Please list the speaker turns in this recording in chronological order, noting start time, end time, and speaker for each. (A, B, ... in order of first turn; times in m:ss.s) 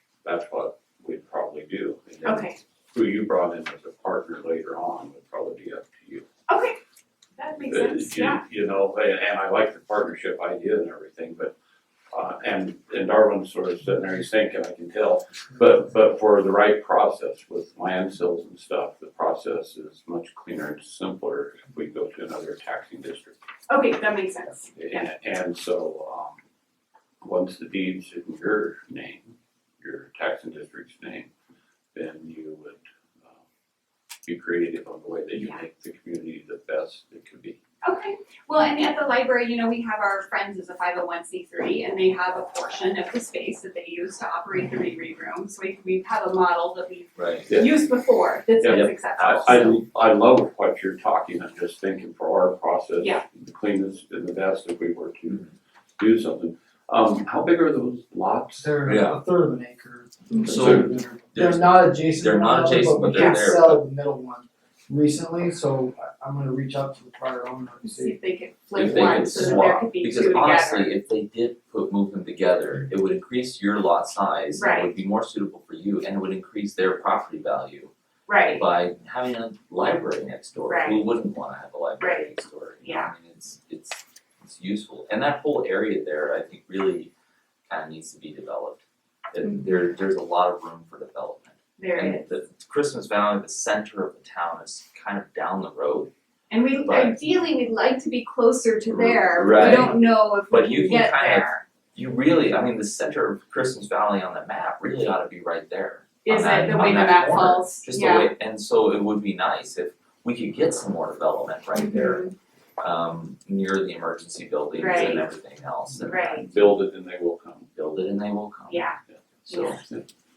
0:00.2-0:06.2 A
0:02.2-0:02.6 B
0:06.5-0:06.8 B
0:07.4-0:08.4 B
0:07.6-0:11.5 A
0:12.1-0:23.3 A
0:23.7-0:25.1 B
0:24.7-0:26.4 A
0:27.2-0:31.3 A
0:31.9-0:33.4 A
0:34.2-0:37.6 A
0:35.3-0:35.6 B
0:37.8-0:49.6 B
0:47.2-0:47.5 C
0:47.5-0:47.7 A
0:48.6-0:55.5 A
0:48.7-0:49.8 C
0:53.0-0:53.2 B
0:56.0-0:58.8 A
0:58.6-1:08.2 D
0:58.8-0:59.2 C
1:00.4-1:03.8 C
1:00.5-1:00.9 A
1:03.1-1:03.5 B
1:07.8-1:10.9 B
1:08.7-1:17.9 C
1:09.0-1:09.7 D
1:14.5-1:15.0 B
1:18.3-1:18.7 B
1:18.5-1:27.1 C
1:20.6-1:21.0 B
1:22.0-1:22.3 B
1:22.8-1:23.1 B
1:27.7-1:28.8 C
1:29.3-1:36.1 C
1:29.4-1:29.9 B
1:31.8-1:32.3 B
1:36.5-1:41.6 B
1:36.8-1:37.2 C
1:38.8-1:52.3 C
1:39.6-1:39.9 D
1:46.2-1:48.3 B
1:51.7-1:52.3 B
1:52.8-1:56.6 C
1:54.8-1:55.3 B
1:56.0-1:56.5 B
1:56.1-1:57.7 A
1:57.7-1:58.8 C
1:58.7-1:59.8 B
1:59.5-1:59.8 C
1:59.7-2:00.0 A